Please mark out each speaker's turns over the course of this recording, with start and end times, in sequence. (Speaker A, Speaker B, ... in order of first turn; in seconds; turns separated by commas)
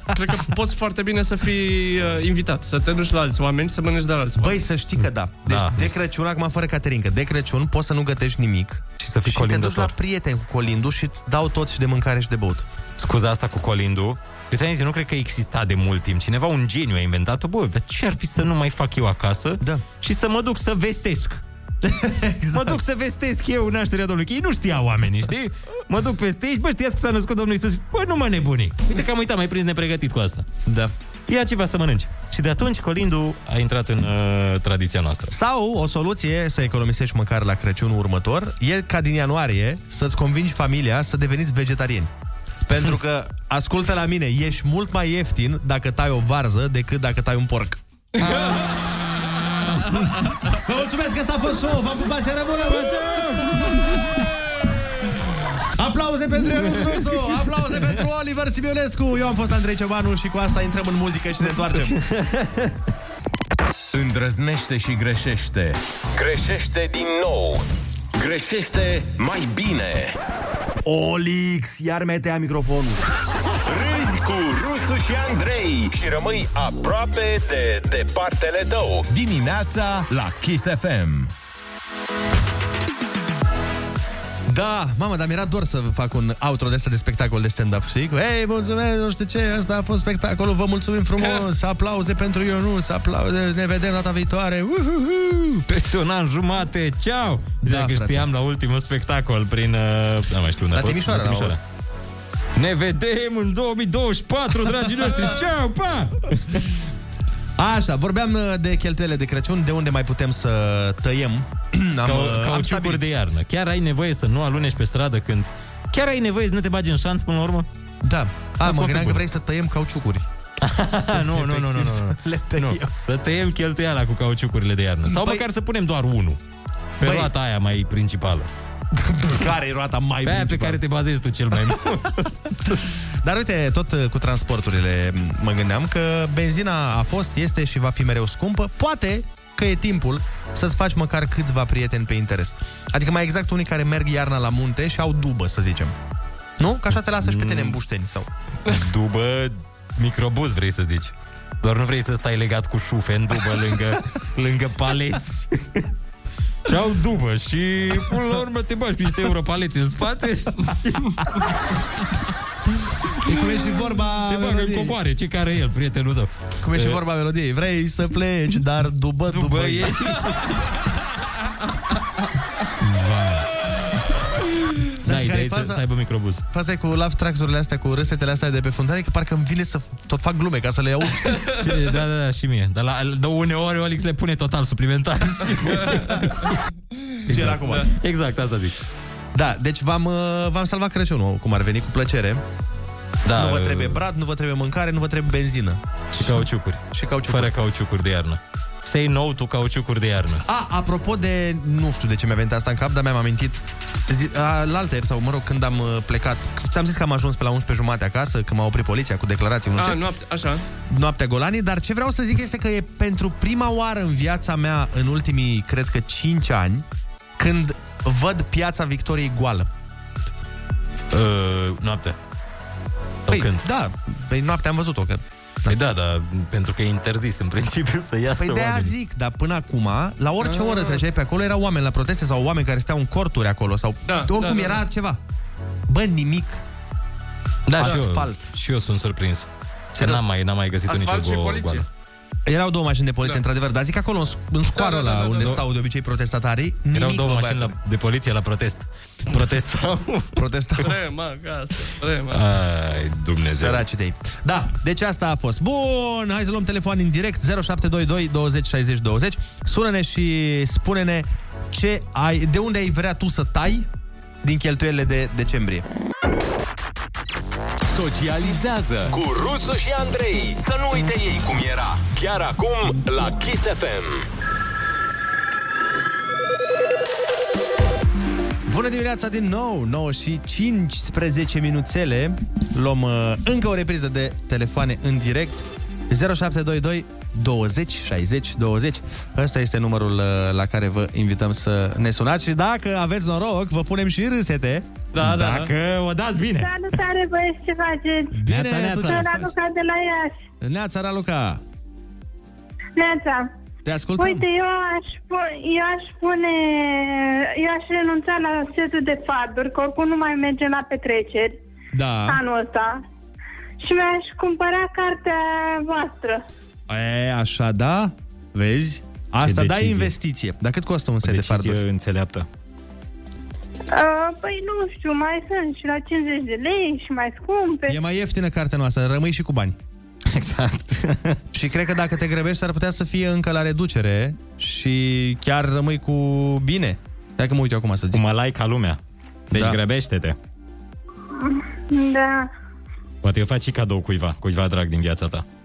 Speaker A: 0.1-4.6, Speaker B: 4.4-12.7, Speaker C: 5.5-6.0, Speaker C: 9.0-9.9, Speaker C: 13.0-21.4, Speaker B: 21.8-22.8, Speaker C: 22.5-30.5, Speaker B: 30.7-30.9, Speaker C: 31.3-35.3, Speaker B: 35.3-42.1, Speaker B: 42.7-47.8, Speaker A: 48.2-48.8, Speaker C: 48.3-49.8, Speaker B: 50.6-54.1, Speaker C: 52.7-54.1, Speaker B: 55.8-62.0, Speaker C: 62.1-62.7, Speaker D: 63.9-67.6, Speaker D: 68.2-70.2, Speaker B: 70.8-73.0, Speaker D: 73.7-81.3, Speaker B: 84.5-95.7, Speaker C: 95.7-101.6, Speaker B: 97.6-98.3, Speaker B: 100.7-101.6, Speaker C: 102.6-106.7, Speaker B: 107.6-113.0, Speaker C: 112.0-117.7, Speaker B: 118.0-120.3, Speaker C: 118.7-119.2, Speaker C: 120.6-126.4, Speaker B: 120.9-122.9, Speaker B: 125.1-125.5, Speaker C: 127.0-128.5, Speaker B: 127.0-127.3, Speaker B: 128.9-130.8, Speaker C: 130.2-132.4, Speaker B: 132.7-146.0, Speaker B: 146.6-148.3, Speaker C: 147.2-147.8, Speaker C: 148.7-155.9, Speaker C: 156.7-161.2, Speaker B: 163.2-165.0, Speaker C: 164.2-167.0, Speaker B: 166.6-170.0, Speaker C: 169.3-170.7, Speaker C: 172.8-173.5, Speaker C: 175.0-176.4, Speaker B: 175.0-175.8, Speaker B: 176.5-181.4, Speaker C: 181.5-186.5, Speaker C: 187.3-188.8, Speaker B: 187.3-187.9, Speaker B: 189.3-192.4, Speaker C: 193.2-194.0, Speaker B: 193.3-197.5, Speaker C: 196.1-200.4, Speaker B: 200.5-210.0, Speaker A: 209.8-210.6, Speaker B: 210.9-216.9, Speaker B: 217.4-219.7, Speaker C: 221.1-222.2, Speaker C: 223.3-223.6, Speaker B: 223.3-225.8, Speaker C: 225.7-228.9, Speaker B: 228.4-235.2, Speaker A: 230.4-231.0, Speaker A: 234.1-234.8, Speaker B: 235.9-236.6, Speaker C: 237.7-241.8, Speaker B: 237.8-238.5, Speaker B: 239.9-240.3, Speaker A: 240.9-241.9, Speaker B: 242.4-247.8, Speaker A: 244.7-245.6, Speaker C: 246.9-250.3, Speaker B: 250.3-251.0, Speaker A: 250.8-252.4, Speaker C: 252.3-253.8, Speaker B: 253.5-263.9, Speaker B: 264.4-265.9, Speaker D: 267.9-274.3, Speaker B: 278.7-294.9, Speaker A: 295.1-295.7, Speaker C: 295.2-296.8, Speaker E: 296.6-298.4, Speaker B: 298.3-299.5, Speaker C: 298.5-299.3, Speaker E: 299.0-300.4, Speaker B: 300.6-301.6, Speaker E: 303.0-303.5, Speaker B: 303.9-304.4, Speaker E: 304.2-311.6, Speaker B: 311.9-312.4, Speaker E: 312.3-313.0, Speaker E: 313.8-316.4, Speaker B: 316.9-321.8, Speaker C: 319.4-320.1, Speaker C: 321.2-322.5, Speaker E: 323.9-328.0, Speaker B: 327.9-329.8, Speaker C: 330.3-331.4, Speaker B: 331.5-338.2, Speaker C: 338.1-339.0, Speaker C: 339.5-340.4, Speaker B: 339.5-339.8, Speaker E: 341.4-342.5, Speaker C: 343.2-345.4